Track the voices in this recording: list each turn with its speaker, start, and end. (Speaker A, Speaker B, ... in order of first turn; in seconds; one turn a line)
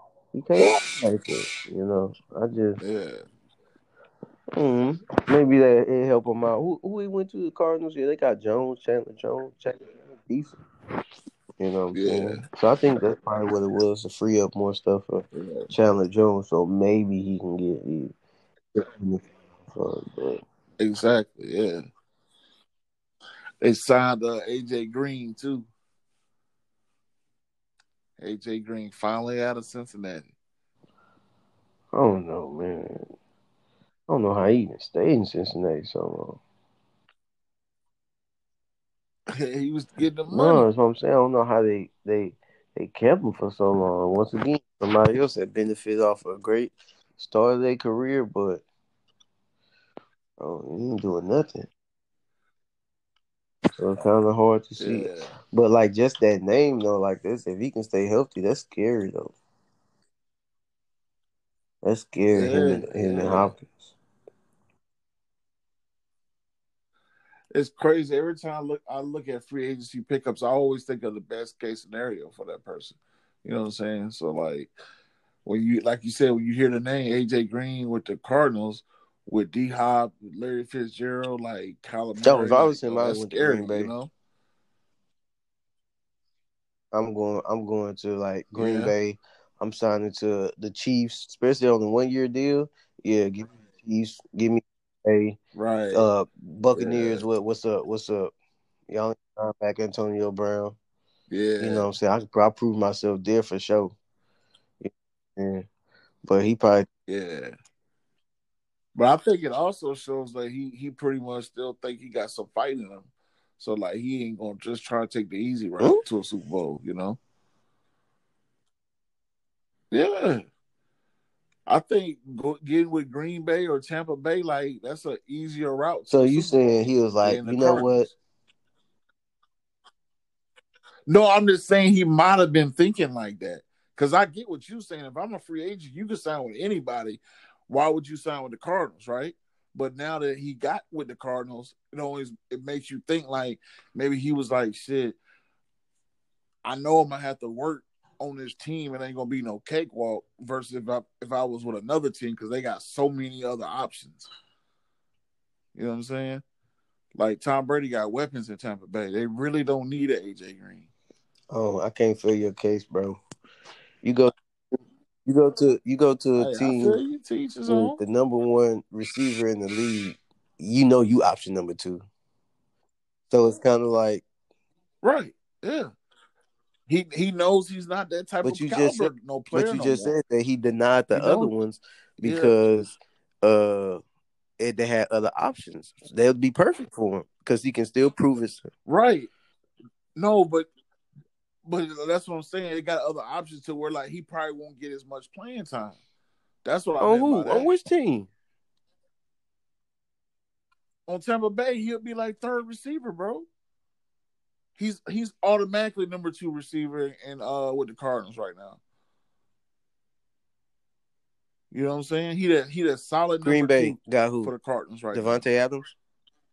Speaker A: 0.3-2.8
Speaker B: 2.8-3.2
Speaker A: 4.5-10.6
Speaker A: 11.6-18.1
Speaker B: 11.9-12.4
Speaker B: 15.3-15.7
Speaker A: 18.7-20.4
Speaker B: 20.8-21.9
Speaker B: 23.6-25.7
Speaker B: 28.2-30.3
Speaker A: 31.9-33.1
Speaker A: 34.1-36.4
Speaker B: 39.3-40.6
Speaker A: 40.3-48.6
Speaker A: 50.4-51.7
Speaker A: 53.8-59.3
Speaker B: 54.8-55.4
Speaker A: 61.8-63.9
Speaker B: 62.3-63.5
Speaker B: 67.5-74.7
Speaker B: 75.4-84.1
Speaker A: 82.2-83.9
Speaker A: 86.9-95.4
Speaker B: 88.5-88.9
Speaker B: 95.5-96.1
Speaker A: 95.9-98.3
Speaker B: 96.7-97.2
Speaker A: 98.9-100.8
Speaker B: 101.3-101.9
Speaker A: 101.6-104.0
Speaker A: 104.8-105.7
Speaker A: 106.2-106.9
Speaker B: 107.1-107.5
Speaker B: 108.9-117.2
Speaker B: 119.9-120.4
Speaker B: 121.7-126.5
Speaker A: 126.1-128.1
Speaker B: 127.2-128.1
Speaker B: 131.1-145.2
Speaker B: 146.6-154.3
Speaker B: 155.7-156.4
Speaker B: 157.2-160.9
Speaker A: 161.5-163.2
Speaker A: 164.0-164.3
Speaker A: 165.2-167.0
Speaker B: 166.4-168.0
Speaker A: 167.7-172.1
Speaker A: 173.3-174.2
Speaker B: 175.0-175.9
Speaker B: 176.9-180.1
Speaker A: 178.4-184.0
Speaker B: 181.1-181.5
Speaker B: 182.2-182.6
Speaker A: 184.6-188.7
Speaker B: 188.9-189.3
Speaker B: 190.2-190.7
Speaker B: 191.7-196.0
Speaker B: 196.6-197.7
Speaker A: 197.0-198.3
Speaker B: 201.1-203.5
Speaker B: 204.8-208.8
Speaker B: 211.7-215.4
Speaker A: 213.4-214.6
Speaker A: 215.1-215.9